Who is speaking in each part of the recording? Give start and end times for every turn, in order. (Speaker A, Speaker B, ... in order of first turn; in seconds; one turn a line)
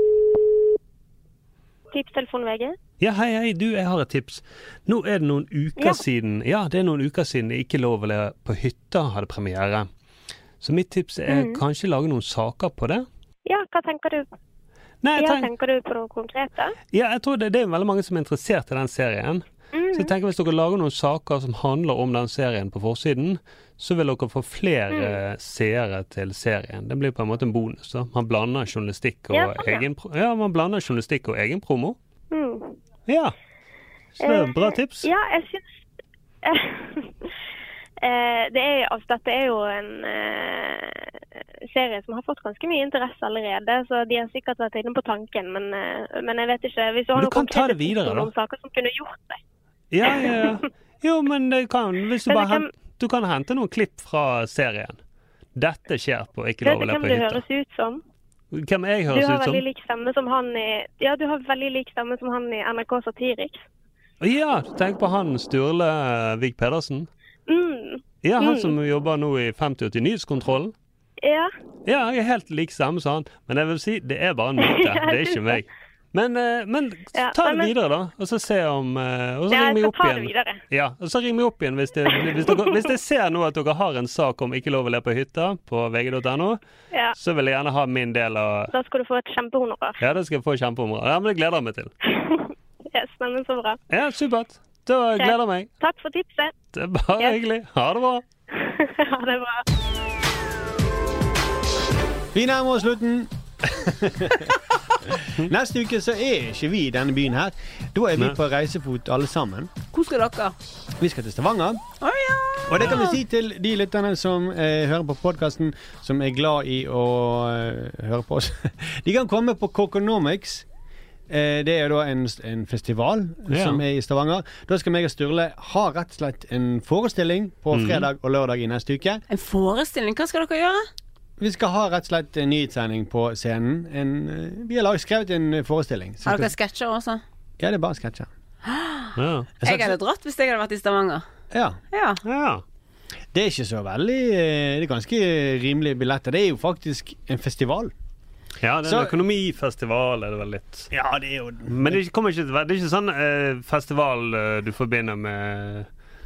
Speaker A: 1.9-2.7
Speaker B: 3.0-9.9
Speaker B: 10.6-13.1
Speaker A: 11.3-11.6
Speaker A: 13.4-14.2
Speaker B: 15.0-15.5
Speaker A: 15.2-16.7
Speaker B: 16.9-32.0
Speaker A: 19.7-20.1
Speaker A: 24.9-25.2
Speaker A: 29.3-29.8
Speaker A: 32.3-32.8
Speaker B: 33.1-33.3
Speaker B: 34.2-35.1
Speaker A: 34.2-35.6
Speaker A: 36.4-37.3
Speaker A: 38.0-41.1
Speaker A: 41.7-49.4
Speaker B: 47.1-48.3
Speaker B: 49.9-55.0
Speaker A: 50.1-50.5
Speaker A: 52.3-52.7
Speaker B: 55.5-57.4
Speaker A: 56.6-58.0
Speaker B: 58.5-59.6
Speaker A: 59.1-63.6
Speaker B: 64.2-67.1
Speaker A: 67.5-68.7
Speaker B: 68.2-70.7
Speaker A: 71.2-71.5
Speaker B: 71.8-86.6
Speaker A: 74.6-75.6
Speaker A: 77.2-77.7
Speaker A: 79.5-80.6
Speaker A: 82.1-82.9
Speaker B: 87.1-88.7
Speaker A: 88.7-90.0
Speaker B: 90.0-91.9
Speaker A: 92.2-93.8
Speaker B: 93.9-95.7
Speaker A: 95.2-96.5
Speaker B: 96.7-98.2
Speaker A: 98.6-99.6
Speaker C: 102.3-104.5
Speaker C: 105.4-109.7
Speaker D: 109.9-110.5
Speaker C: 111.0-111.8
Speaker D: 112.0-113.2
Speaker C: 112.7-120.7
Speaker C: 121.3-129.2
Speaker B: 123.5-123.8
Speaker B: 127.7-128.1
Speaker D: 129.3-130.9
Speaker C: 131.4-136.5
Speaker D: 136.2-137.2
Speaker C: 137.6-138.3
Speaker D: 138.7-139.1
Speaker B: 139.2-139.5
Speaker C: 139.6-139.9
Speaker D: 139.6-141.2
Speaker C: 141.5-141.8
Speaker D: 141.9-142.2
Speaker B: 142.2-142.6
Speaker C: 143.3-147.9
Speaker B: 148.6-150.9
Speaker C: 148.8-149.1
Speaker C: 150.9-152.0
Speaker B: 151.7-155.9